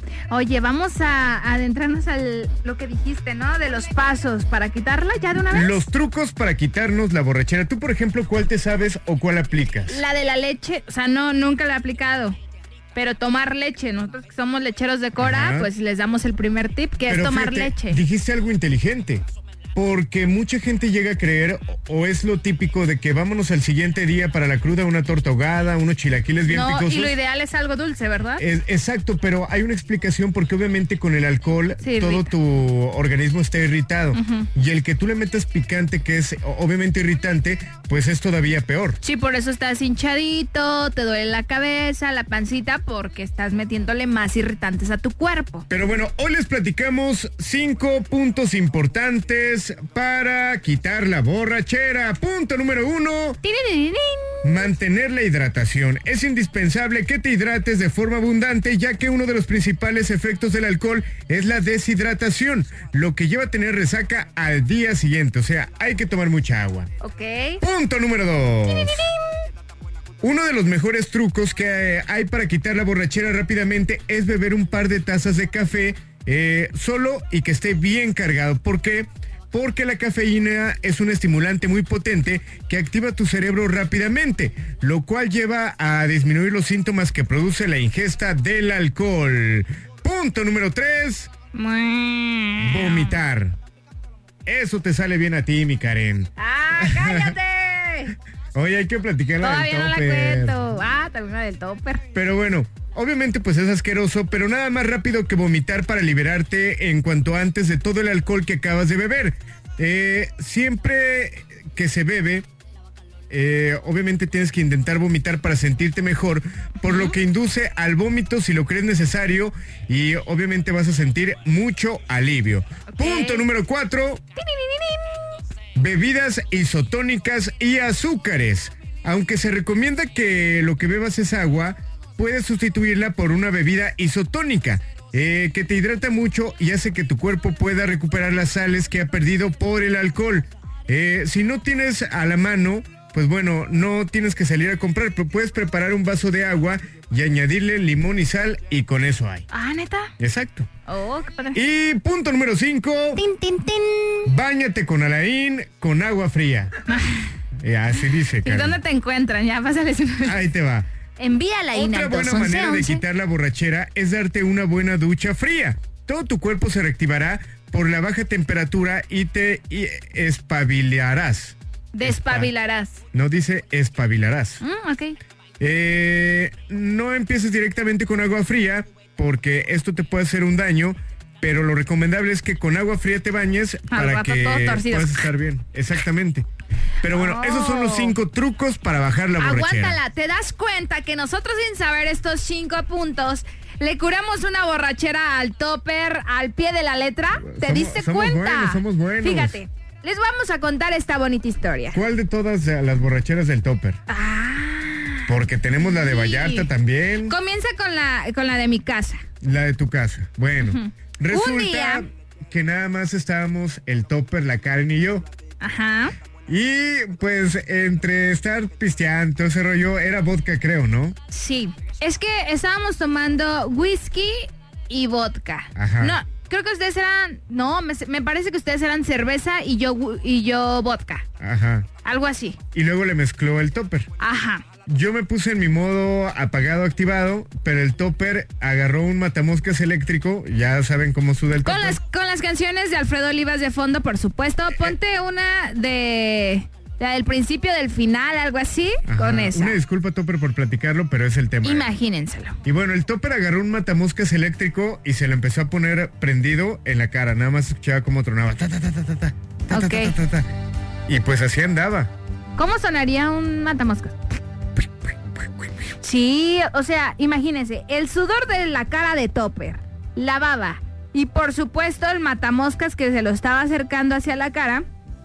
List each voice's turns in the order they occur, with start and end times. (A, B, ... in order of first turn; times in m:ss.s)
0:00.3-0:05.8 A
0:05.5-0:10.0 B
0:09.9-0:12.4 A
0:12.9-0:18.0 A
0:15.2-0:15.7 B
0:17.1-0:19.2 B
0:19.7-0:27.1 B
0:26.5-0:28.4 A
0:28.4-0:39.0 B
0:31.8-0:32.3 A
0:34.1-0:34.5 A
0:39.0-0:45.6 A
0:45.7-0:53.4 B
0:53.4-0:54.6 A
0:54.4-1:06.9 B
1:07.0-1:07.6 A
1:07.6-1:09.0 B
1:08.7-1:09.1 A
1:10.2-1:31.3 B
1:31.5-1:33.2 A
1:32.6-1:33.6 B
1:34.4-1:37.4 B
1:36.4-1:38.1 A
1:38.5-1:40.6 B
1:39.4-1:42.0 A
1:42.1-1:52.4 B
1:53.3-2:04.2 B
1:56.8-1:57.1 A
2:02.9-2:03.4 A
2:04.4-2:05.2 A
2:05.7-2:29.4 B
2:29.5-2:30.1 A
2:30.2-2:30.7 B
2:30.9-2:31.6 A
2:31.5-2:33.2 B
2:33.2-2:34.3 A
2:34.2-2:36.7 B
2:36.9-2:37.2 A
2:37.6-2:38.8 B
2:38.4-2:40.4 A
2:40.2-2:40.9 B
2:41.2-2:43.0 A
2:41.7-2:52.5 B
2:51.9-2:53.0 A
2:53.1-2:54.6 B
2:54.6-2:55.2 A
2:55.6-3:06.5 B
3:03.9-3:05.3 A
3:07.0-3:10.0 B
3:07.1-3:08.2 A
3:09.4-3:22.0 A
3:17.4-3:19.6 B
3:21.9-3:24.0 B
3:24.1-3:26.7 A
3:25.3-3:27.3 B
3:27.2-3:29.2 A
3:29.4-3:35.2 B
3:30.6-3:32.0 A
3:35.6-3:36.1 A
3:36.5-3:41.2 B
3:41.3-3:51.2 A
3:45.8-3:46.2 B
3:51.4-3:51.9 B
3:52.0-3:52.6 A
3:52.7-3:54.1 B
3:54.2-3:54.6 A
3:54.8-4:02.0 B
4:01.6-4:09.8 A
4:09.0-4:11.9 B
4:11.6-4:12.6 A
4:12.6-4:20.5 B
4:19.7-4:20.1 A
4:21.1-4:22.1 B
4:22.6-4:24.2 A
4:26.0-4:34.8 A